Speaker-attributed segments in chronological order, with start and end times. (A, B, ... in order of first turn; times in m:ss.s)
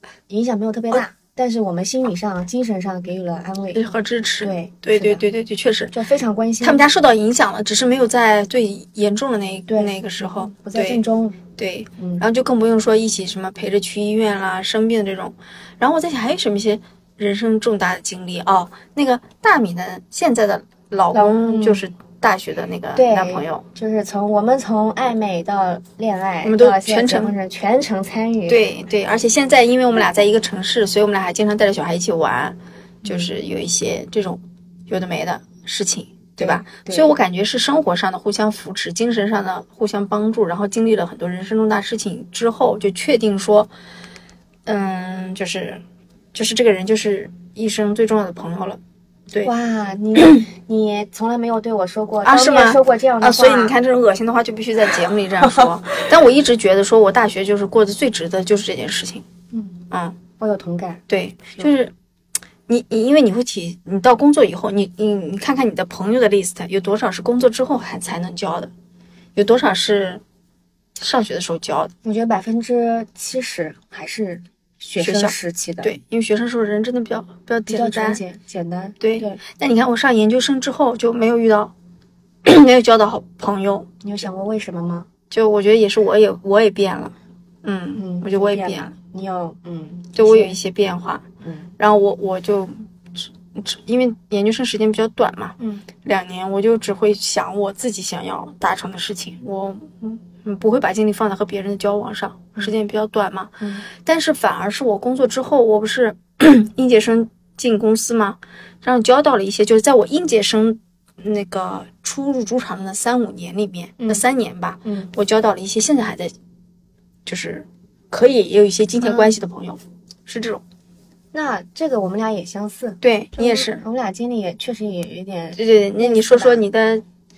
0:00.3-0:03.8 A
0:03.7-0:05.9 B
0:04.4-0:05.2 A
0:05.9-0:06.9 A
0:06.6-0:11.0 B
0:09.7-0:11.4 A
0:11.6-0:23.6 B
0:12.0-0:12.2 A
0:21.1-0:21.8 A
0:23.0-0:28.7 A
0:26.4-0:27.4 B
0:28.5-0:43.7 B
0:33.0-0:33.3 A
0:36.4-0:37.1 A
0:44.7-0:45.8 B
0:46.3-0:48.8 B
0:49.4-0:53.8 A
0:50.2-0:50.5 B
0:52.2-0:59.3 B
0:59.5-0:59.8 A
0:59.9-1:00.2 B
1:00.4-1:01.7 A
1:01.1-1:01.9 B
1:02.7-1:08.7 B
1:09.4-1:10.2 B
1:11.0-1:11.9 B
1:12.0-1:15.9 A
1:15.0-1:18.2 B
1:17.7-1:19.4 A
1:19.0-1:21.7 B
1:22.4-1:23.9 B
1:24.0-1:25.1 A
1:25.3-1:28.9 B
1:28.0-1:30.6 A
1:30.2-1:31.3 B
1:31.4-1:31.7 A
1:31.8-1:56.3 B
1:35.6-1:35.9 A
1:43.6-1:43.9 A
1:54.0-1:54.2 A
1:54.8-1:55.1 A
1:57.3-2:00.6 B
1:59.0-1:59.3 A
2:01.3-2:06.6 A
2:03.0-2:03.8 B
2:05.6-2:07.0 B